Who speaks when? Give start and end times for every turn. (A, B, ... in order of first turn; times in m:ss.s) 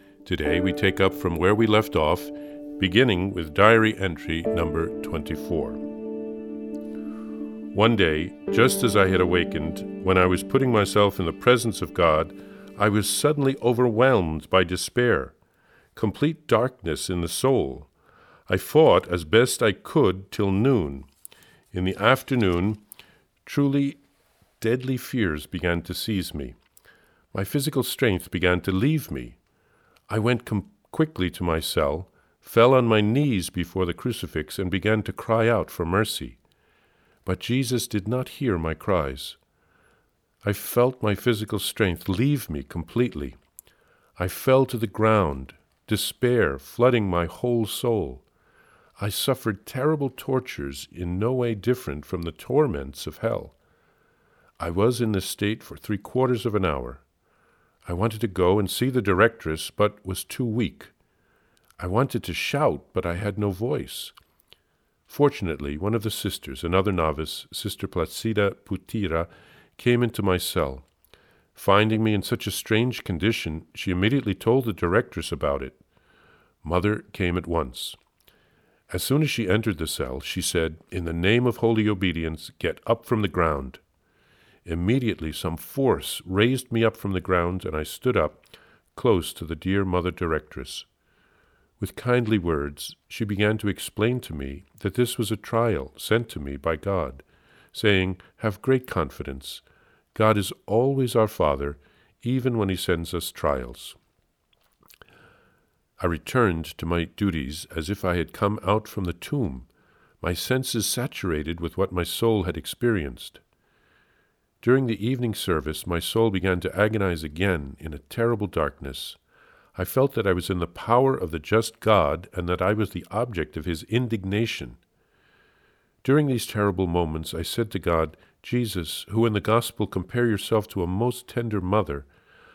0:00.2-0:05.8 A
0:07.7-0:15.4 A
0:16.0-0:17.9 A
0:18.5-0:21.1 A
0:21.7-0:22.8 A
0:23.4-0:24.0 A
0:24.6-0:26.6 A
0:27.3-0:29.4 A
0:30.1-0:36.4 A
0:37.2-0:39.4 A
0:40.4-0:43.4 A
0:44.2-0:48.2 A
0:49.0-0:53.6 A
0:54.6-0:57.0 A
0:57.8-1:00.9 A
1:01.8-1:04.1 A
1:05.1-1:10.8 A
1:11.5-1:15.8 A
1:16.6-1:18.0 A
1:18.9-1:23.8 A
1:24.6-1:30.8 A
1:31.8-1:39.6 A
1:40.1-1:44.0 A
1:46.0-1:49.7 A
1:50.2-1:53.4 A
1:54.6-1:59.2 A
1:59.7-2:04.8 A
2:06.0-2:12.1 A